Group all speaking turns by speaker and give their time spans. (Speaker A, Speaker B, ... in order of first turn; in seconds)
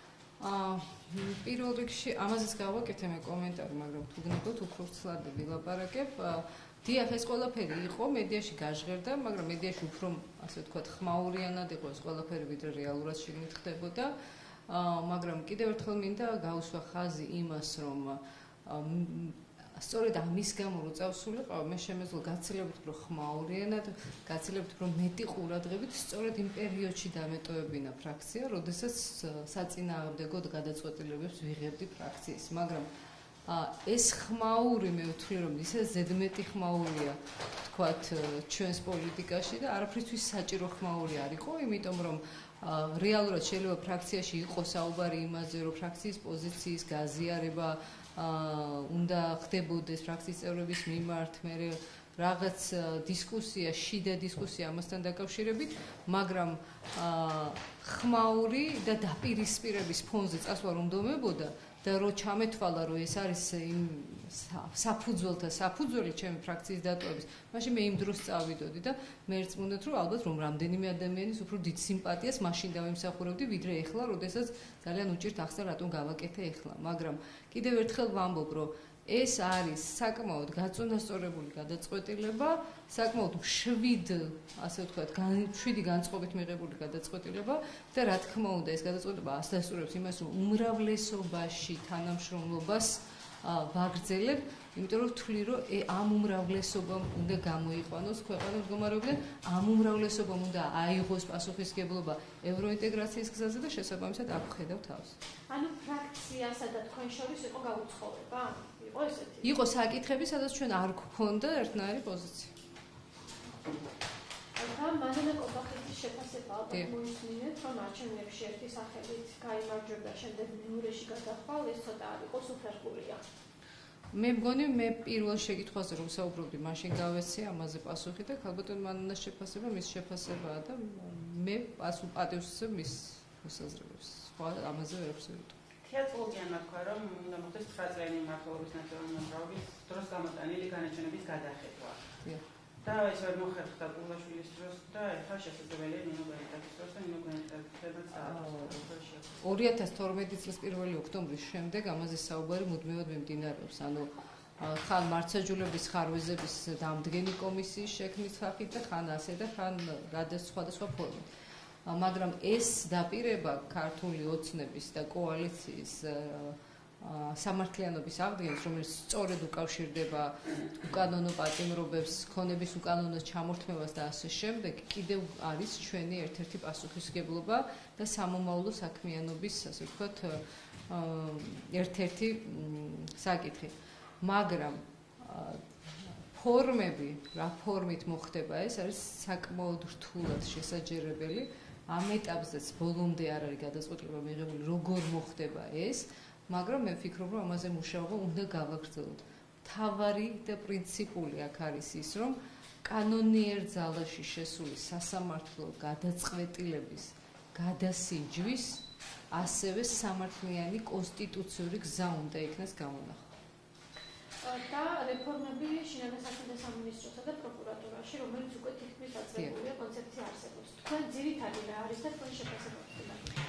Speaker A: 0.4-32.9, 33.5-105.2, 109.4-112.5, 124.1-135.6, 148.2-148.9, 149.4-161.3, 161.8-213.2, 219.3-219.6
Speaker B: 105.5-109.6, 114.6-123.2, 214.4-223.3
Speaker C: 135.8-142.0, 142.8-149.4